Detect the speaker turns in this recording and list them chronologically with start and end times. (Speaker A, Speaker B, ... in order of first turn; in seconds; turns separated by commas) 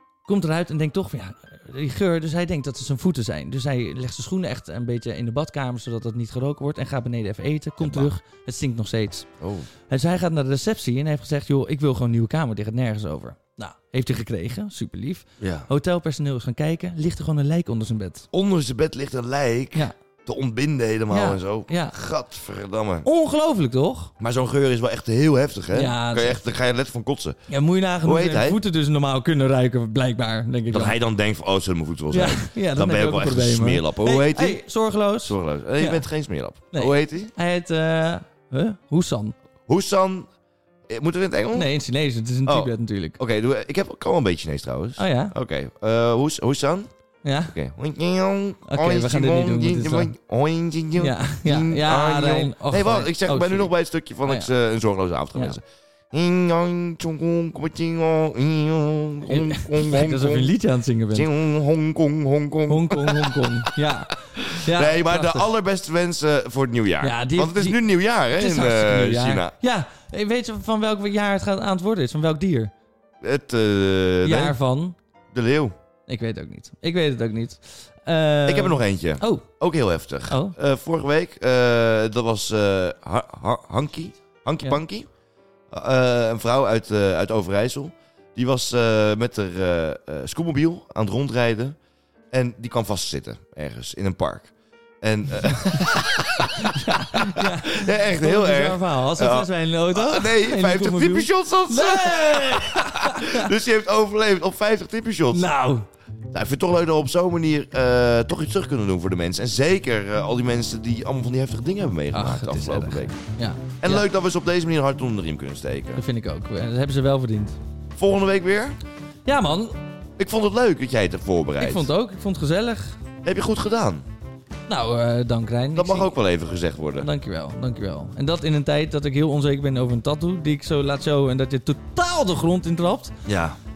Speaker A: 0.3-9.3, Speaker B: 7.8-8.1, Speaker B: 9.4-9.7, Speaker A: 9.9-18.3, Speaker B: 15.4-15.7, Speaker B: 18.3-23.1, Speaker A: 21.1-21.9, Speaker A: 23.1-24.1, Speaker B: 24.2-27.4, Speaker A: 25.7-26.5, Speaker A: 27.5-31.0, Speaker B: 28.0-28.6, Speaker B: 30.7-34.6, Speaker A: 32.1-36.1, Speaker B: 35.2-37.3, Speaker A: 36.7-39.4, Speaker B: 39.7-40.3, Speaker B: 40.9-41.7, Speaker A: 41.5-43.2, Speaker B: 42.5-46.9, Speaker A: 45.0-45.3, Speaker A: 47.2-47.5, Speaker B: 47.5-60.5, Speaker A: 48.7-50.1, Speaker A: 51.0-53.7, Speaker A: 59.3-61.3, Speaker B: 61.1-63.5, Speaker A: 62.7-65.5, Speaker B: 64.3-69.5, Speaker A: 67.0-72.7, Speaker B: 73.2-74.6, Speaker A: 74.2-75.0, Speaker B: 75.3-75.7, Speaker A: 76.1-79.5, Speaker B: 78.5-85.1, Speaker A: 80.3-80.5, Speaker B: 85.7-91.8, Speaker B: 92.3-105.5, Speaker A: 95.7-103.5, Speaker A: 105.3-105.9, Speaker B: 106.3-113.2, Speaker A: 112.1-114.1, Speaker B: 113.8-116.0, Speaker A: 115.9-117.6, Speaker B: 118.0-118.8, Speaker A: 119.3-119.8, Speaker B: 120.2-121.9, Speaker A: 121.6-123.0, Speaker B: 123.2-124.1, Speaker A: 124.7-126.2, Speaker B: 125.8-127.1, Speaker A: 127.0-133.2, Speaker B: 133.3-133.6